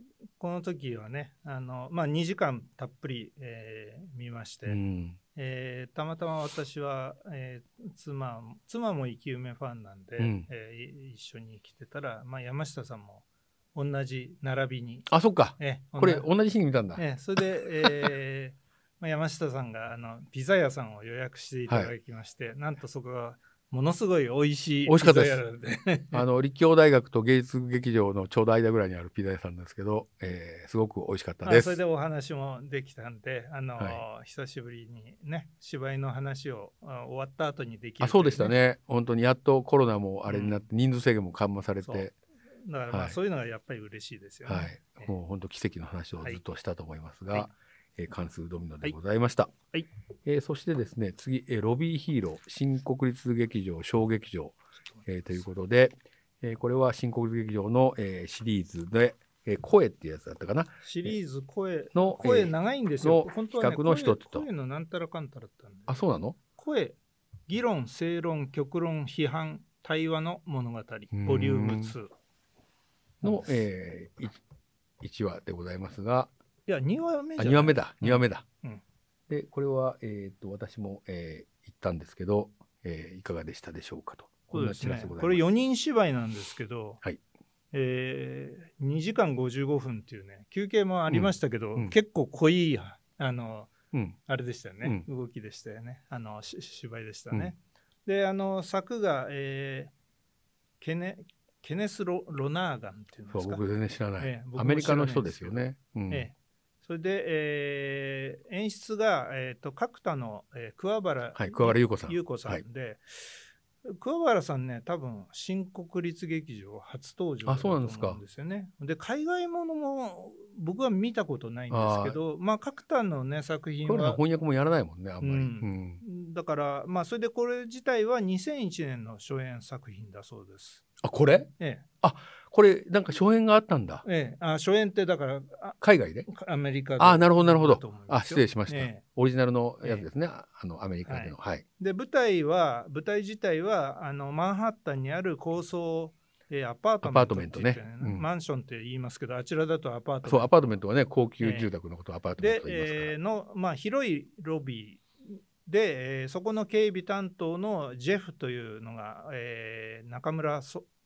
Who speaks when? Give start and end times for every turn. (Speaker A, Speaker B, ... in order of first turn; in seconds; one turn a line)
Speaker A: 0.4-4.8
Speaker B: 4.7-5.2
Speaker A: 5.3-16.3
Speaker B: 10.2-10.5
Speaker B: 15.1-17.1
Speaker A: 17.0-26.2
Speaker B: 17.8-18.1
Speaker B: 21.7-21.9
Speaker B: 24.9-25.4
Speaker B: 26.1-31.8
Speaker A: 31.4-38.6
Speaker B: 33.8-34.0
Speaker B: 38.0-42.1
Speaker A: 40.3-40.6
Speaker A: 41.8-42.1
Speaker A: 42.6-45.1
Speaker B: 42.9-43.2
Speaker B: 44.5-49.5
Speaker B: 50.2-61.2
Speaker A: 60.8-66.0
Speaker B: 61.9-64.5
Speaker B: 65.9-66.4
Speaker A: 66.6-67.0
Speaker A: 67.5-72.1
Speaker B: 71.1-72.0
Speaker A: 73.2-73.5
Speaker B: 73.2-74.4
Speaker B: 75.0-76.3
Speaker A: 76.7-78.8
Speaker B: 77.4-78.5
Speaker B: 79.3-85.4
Speaker A: 84.5-87.0
Speaker A: 87.7-93.7
Speaker B: 91.1-92.0
Speaker A: 94.3-99.9
Speaker A: 100.8-103.6
Speaker B: 103.3-106.3
Speaker A: 104.2-124.2
Speaker B: 111.4-112.6
Speaker B: 117.5-118.2
Speaker B: 121.7-122.2
Speaker B: 123.8-126.0
Speaker A: 125.2-130.8
Speaker B: 131.0-131.5
Speaker A: 131.6-131.8
Speaker B: 132.0-134.0
Speaker A: 134.0-139.0
Speaker B: 135.8-136.3
Speaker B: 137.0-141.7
Speaker A: 139.8-140.1
Speaker A: 141.1-150.8
Speaker B: 147.0-148.2
Speaker B: 150.2-153.2
Speaker A: 151.4-151.7
Speaker A: 152.4-160.9